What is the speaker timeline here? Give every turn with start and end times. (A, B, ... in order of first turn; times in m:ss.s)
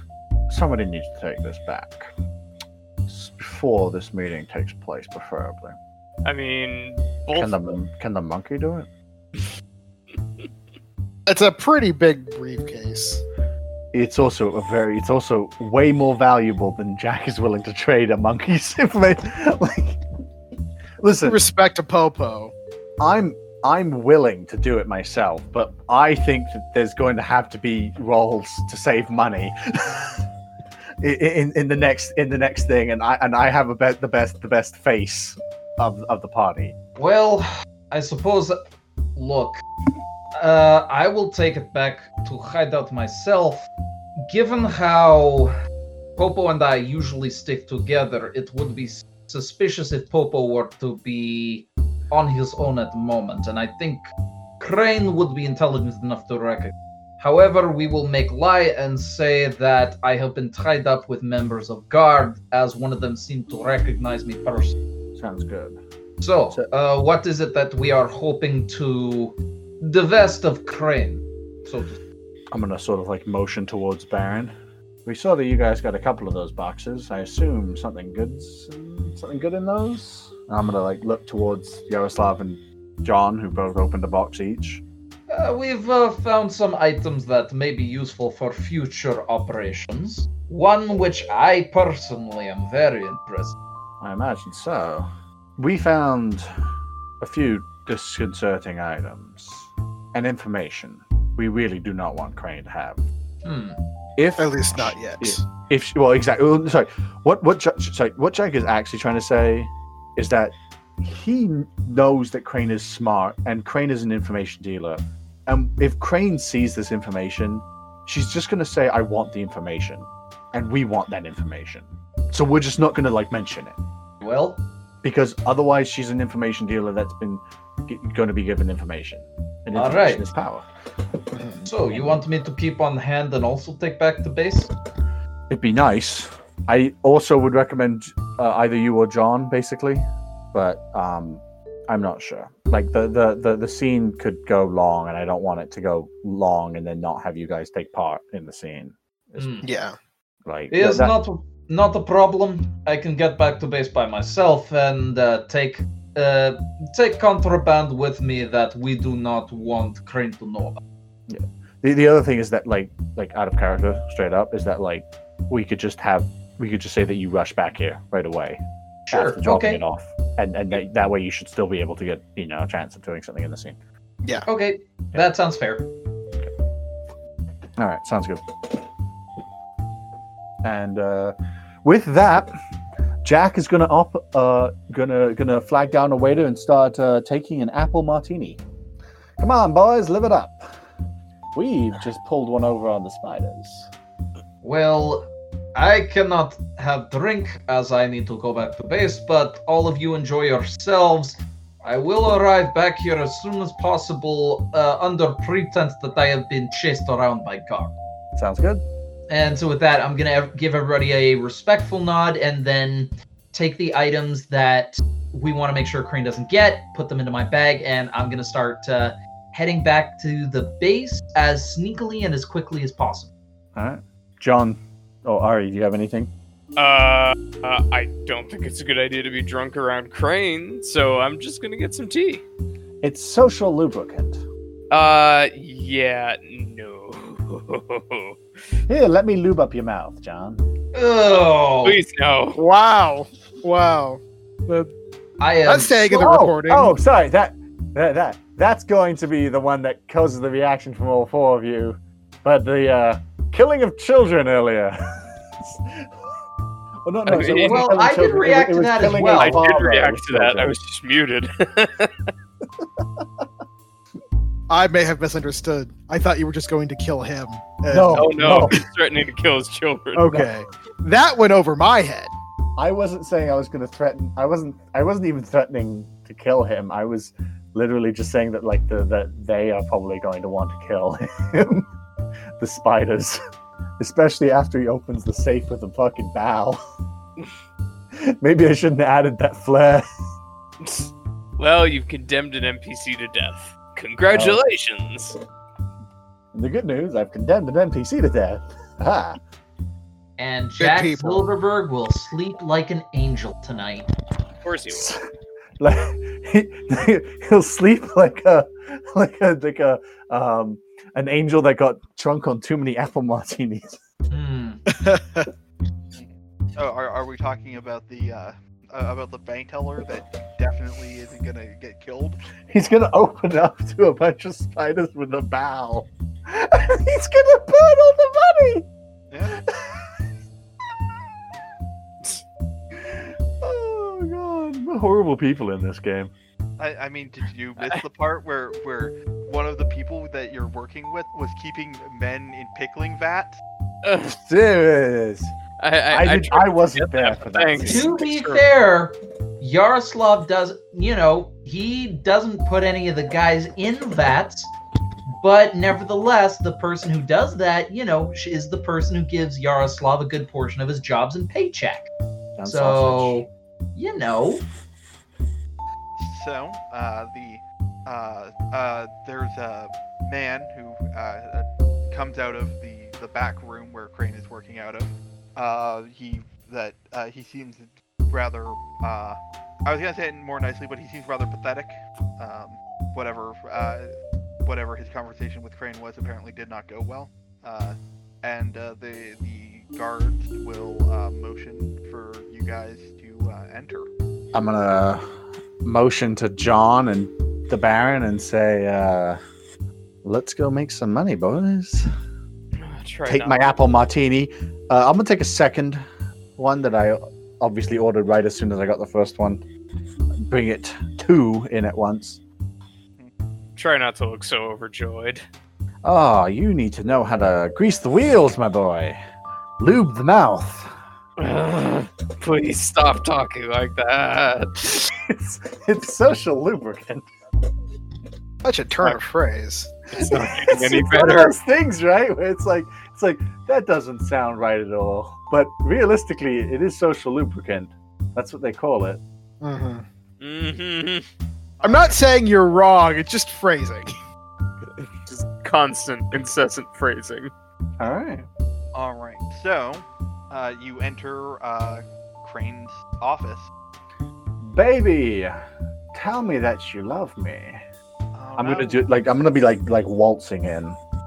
0:00.5-0:02.1 A
0:03.1-0:05.8 A
0:06.2-0:07.7 B
0:07.3-0:08.9 A
0:11.2-0:13.2 C
0:13.9-0:20.0 A
0:21.0-0:21.4 A
0:21.2-0:22.5 C
0:23.0-0:30.2 A
0:31.0-0:36.8 A
0:37.0-0:38.6 D
0:39.1-0:39.6 D
0:40.3-0:43.7 D
0:44.3-0:45.5 D
0:46.2-0:54.1 D
0:54.6-1:04.8 D
1:05.1-1:05.8 A
1:06.2-1:12.0 D
1:12.5-1:14.5 A
1:15.0-1:24.8 A
1:25.3-1:33.6 D
1:34.0-1:36.5 A
1:37.2-1:43.0 A
1:43.4-1:43.8 D
1:44.2-2:03.8 A
1:44.4-1:45.4 C
2:04.2-2:04.6 D
2:05.0-2:10.6 A
2:09.7-2:10.2 D
2:11.3-2:11.7 C
2:11.6-2:14.7 D
2:11.9-2:12.2 A
2:15.5-2:29.6 A
2:29.4-2:29.7 D
2:29.6-2:30.0 C
2:30.4-2:31.1 A
2:30.7-2:40.8 D
2:41.3-2:53.8 A
2:49.1-2:49.8 D
2:54.4-2:55.8 D
2:57.8-2:58.4 A
3:00.6-3:02.5 A
3:03.2-3:08.6 A
3:09.4-3:10.8 A
3:11.5-3:13.9 A
3:14.6-3:27.9 D
3:28.3-3:28.8 A
3:29.3-3:43.3 D
3:43.7-3:46.3 A
3:46.8-3:52.4 B
3:53.0-3:54.4 A
3:54.9-3:58.4 B
3:58.9-4:00.6 A
4:00.9-4:02.0 D
4:01.8-4:02.6 B
4:02.6-4:04.9 C
4:05.4-4:06.0 D
4:05.6-4:06.9 C
4:06.1-4:16.3 A
4:17.0-4:20.8 A
4:17.2-4:17.9 B
4:17.6-4:19.7 D
4:19.4-4:22.3 B
4:23.0-4:23.4 A
4:24.7-4:28.8 C
4:27.9-4:28.8 A
4:28.1-4:30.4 B
4:30.2-4:32.3 C
4:32.8-4:41.9 A
4:42.6-4:43.4 A
4:44.0-4:46.8 A
4:48.2-4:50.2 A
4:50.8-4:55.4 B
4:54.3-4:54.6 A
4:56.5-4:59.4 A
5:00.4-5:04.1 D
5:00.8-5:01.5 C
5:04.6-5:05.2 B
5:04.9-5:05.2 A
5:05.8-5:14.0 A
5:14.3-5:14.8 D
5:14.9-5:15.5 C
5:16.1-5:22.4 E
5:22.7-5:28.9 A
5:29.3-5:29.6 E
5:29.7-5:30.1 A
5:33.0-5:36.3 A
5:36.8-5:43.6 E
5:44.0-5:44.3 B
5:44.2-5:45.5 A
5:45.8-5:48.6 B
5:46.1-5:48.2 A
5:47.8-5:54.7 D
5:55.4-6:02.1 D
6:02.6-6:03.4 A
6:02.6-6:04.6 D
6:06.2-6:24.1 E
6:24.6-6:34.1 E
6:34.5-6:35.2 A
6:35.8-6:39.4 A
6:40.2-6:42.1 A
6:42.8-6:43.6 B
6:43.2-6:46.0 A
6:46.6-6:49.6 A
6:50.5-6:52.4 A
6:53.8-6:55.4 B
6:56.0-6:59.2 A
6:59.8-7:00.9 A
7:01.4-7:05.0 B
7:05.2-7:07.2 A
7:08.6-7:10.5 C
7:10.1-7:19.2 A
7:10.2-7:11.6 B
7:19.6-7:20.0 C
7:20.4-7:21.2 B
7:21.8-7:22.2 E
7:21.8-7:24.1 C
7:25.3-7:27.5 B
7:28.0-7:28.4 A
7:28.9-7:33.7 E
7:34.6-7:35.6 A
7:36.1-7:37.8 A
7:38.3-7:39.0 E
7:38.6-7:41.0 A